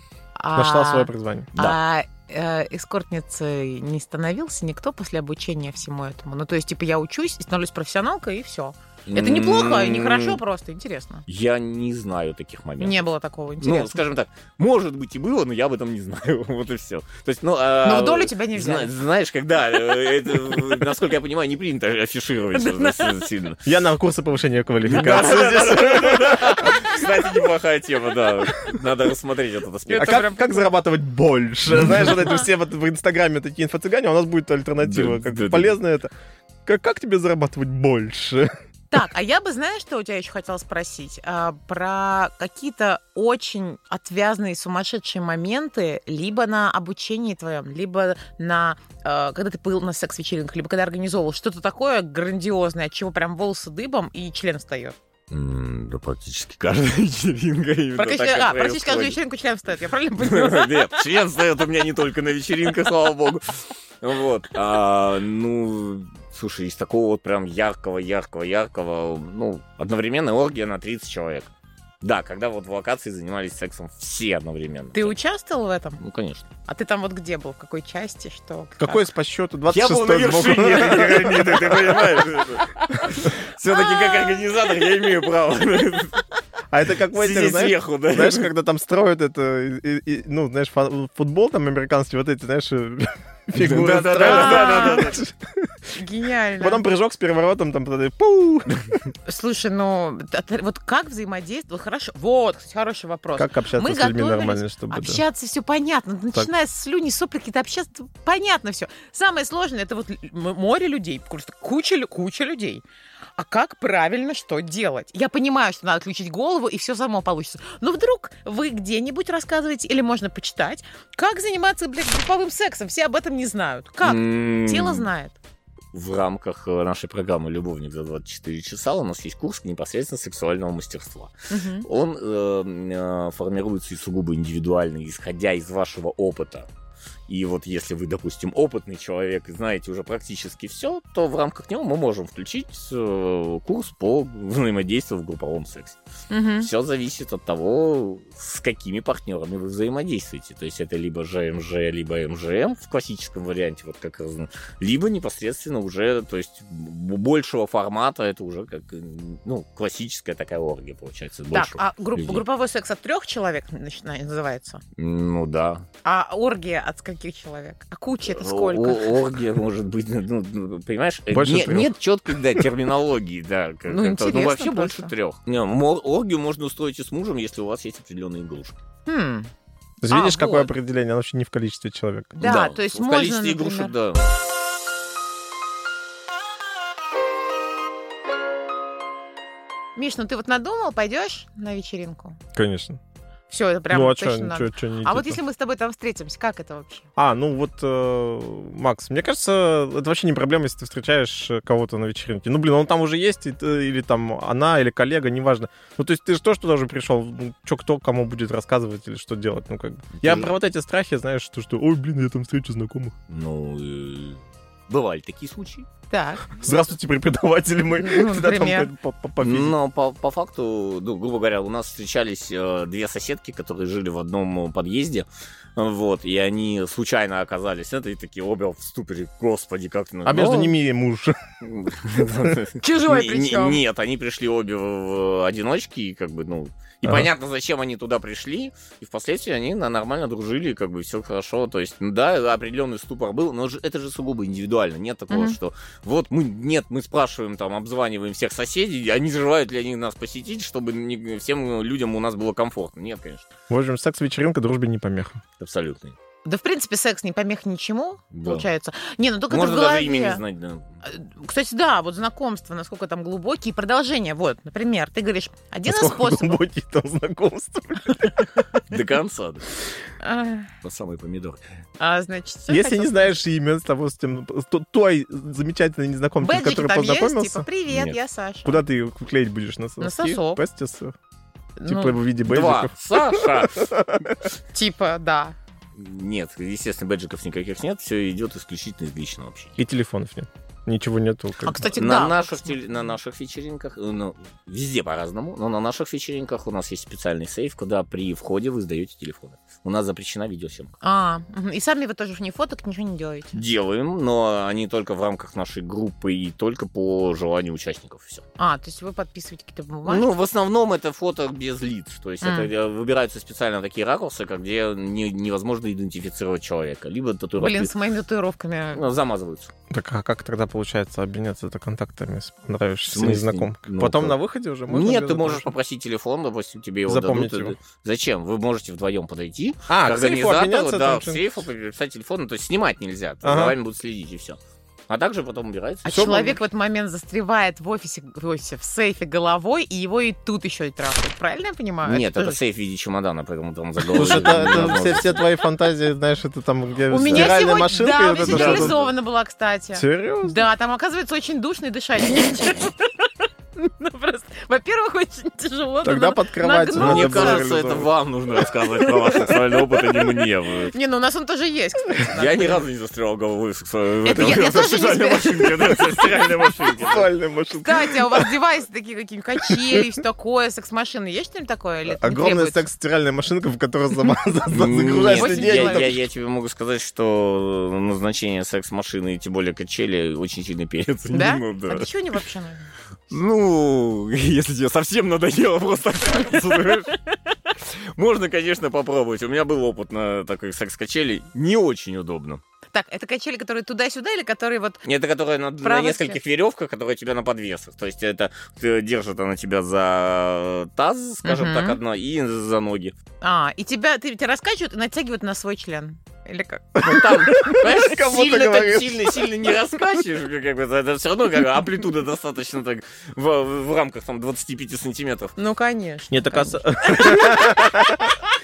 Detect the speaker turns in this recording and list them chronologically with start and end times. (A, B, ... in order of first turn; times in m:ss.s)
0:00.4-0:11.3 A
0:00.6-0:01.5 B
0:09.1-0:10.4 C
0:11.3-0:13.1 C
0:12.8-0:14.0 A
0:13.6-0:23.6 C
0:17.8-0:18.9 A
0:22.5-0:23.2 A
0:23.6-0:27.1 B
0:24.8-0:30.3 C
0:29.9-0:30.7 A
0:29.9-0:36.1 B
0:31.7-0:32.1 C
0:34.8-0:35.8 C
0:36.7-0:38.5 B
0:38.9-0:55.0 A
0:55.3-0:59.2 C
0:58.0-1:01.0 A
1:00.2-1:11.5 C
1:12.0-1:15.2 C
1:14.9-1:16.0 A
1:16.0-1:16.5 C
1:16.6-1:19.0 A
1:18.8-1:22.5 B
1:19.7-1:26.2 C
1:23.7-1:24.6 A
1:26.7-1:36.0 B
1:27.1-1:28.5 C
1:33.6-1:35.2 C
1:34.2-1:35.1 A
1:36.0-1:36.8 A
1:36.6-1:38.8 B
1:39.3-1:52.8 A
1:43.4-1:45.2 B
1:53.4-2:05.4 A
2:04.0-2:05.1 C
2:05.9-2:11.3 C
2:11.5-2:11.9 A
2:11.8-2:16.7 C
2:17.3-2:26.0 C
2:26.3-2:26.7 A
2:26.6-2:42.4 C
2:41.5-2:44.8 A
2:45.0-2:45.9 C
2:46.0-2:49.2 A
2:48.2-2:58.8 C
2:51.3-2:52.0 B
2:53.9-2:55.1 A
2:59.1-2:59.5 A
3:00.0-3:02.4 B
3:00.1-3:00.7 A
3:02.4-3:03.9 A
3:02.4-3:04.3 C
3:10.0-3:12.4 A
3:12.5-3:13.0 B
3:13.5-3:17.1 A
3:13.9-3:15.4 B
3:17.2-3:33.2 B
3:30.2-3:30.5 C
3:33.3-3:35.9 C
3:36.1-3:36.5 A
3:36.6-3:39.7 B
3:38.0-3:38.9 A
3:39.4-3:50.8 C
3:50.3-3:51.4 B
3:51.6-4:13.5 C
3:52.2-3:52.6 B
3:52.8-3:53.8 A
4:05.3-4:05.6 A
4:13.7-4:15.4 B
4:15.6-4:16.2 C
4:16.4-4:20.4 A
4:18.3-4:18.7 C
4:19.5-4:20.9 C
4:21.0-4:26.6 A
4:25.9-4:28.8 B
4:28.9-4:29.7 C
4:30.2-4:30.7 A
4:30.8-4:31.6 C
4:32.0-4:33.4 A
4:32.7-4:37.7 B
4:36.4-4:38.8 A
4:37.9-4:38.2 C
4:38.6-4:41.2 B
4:40.0-4:40.6 A
4:41.8-4:42.2 A
4:41.9-4:44.4 B
4:42.4-4:43.9 C
4:44.7-4:45.6 A
4:46.0-4:49.8 C
4:49.8-4:51.9 B
4:51.6-4:52.8 A
4:52.0-5:01.0 C
5:01.0-5:03.6 A
5:03.5-5:08.4 C
5:08.6-5:10.3 A
5:10.1-5:17.9 C
5:12.4-5:12.7 A
5:17.6-5:19.0 A
5:18.9-5:19.7 C
5:19.9-5:25.7 B
5:23.1-5:24.4 C
5:24.9-5:36.3 C
5:27.1-5:27.8 B
5:29.9-5:31.5 B
5:33.4-5:33.8 B
5:36.0-5:42.6 A
5:36.1-5:36.6 B
5:42.0-5:45.5 C
5:44.1-5:49.0 B
5:47.1-5:57.8 A
5:48.4-5:49.1 C
5:50.0-5:50.6 B
5:56.0-5:58.1 B
5:57.0-6:00.9 C
5:58.6-5:59.6 B
6:00.9-6:02.8 A
6:02.3-6:07.3 C
6:04.2-6:06.1 A
6:06.9-6:08.5 B
6:07.8-6:12.8 A
6:12.1-6:16.2 B
6:14.7-6:22.4 C
6:15.3-6:16.2 A
6:21.3-6:22.9 A
6:23.3-6:32.6 C
6:32.9-6:35.0 A
6:35.0-6:43.1 C
6:35.8-6:36.4 A
6:41.4-6:42.0 A
6:43.4-6:47.2 A
6:47.0-6:49.5 B
6:47.0-6:55.6 C
6:55.6-6:57.8 A
6:56.3-6:58.4 B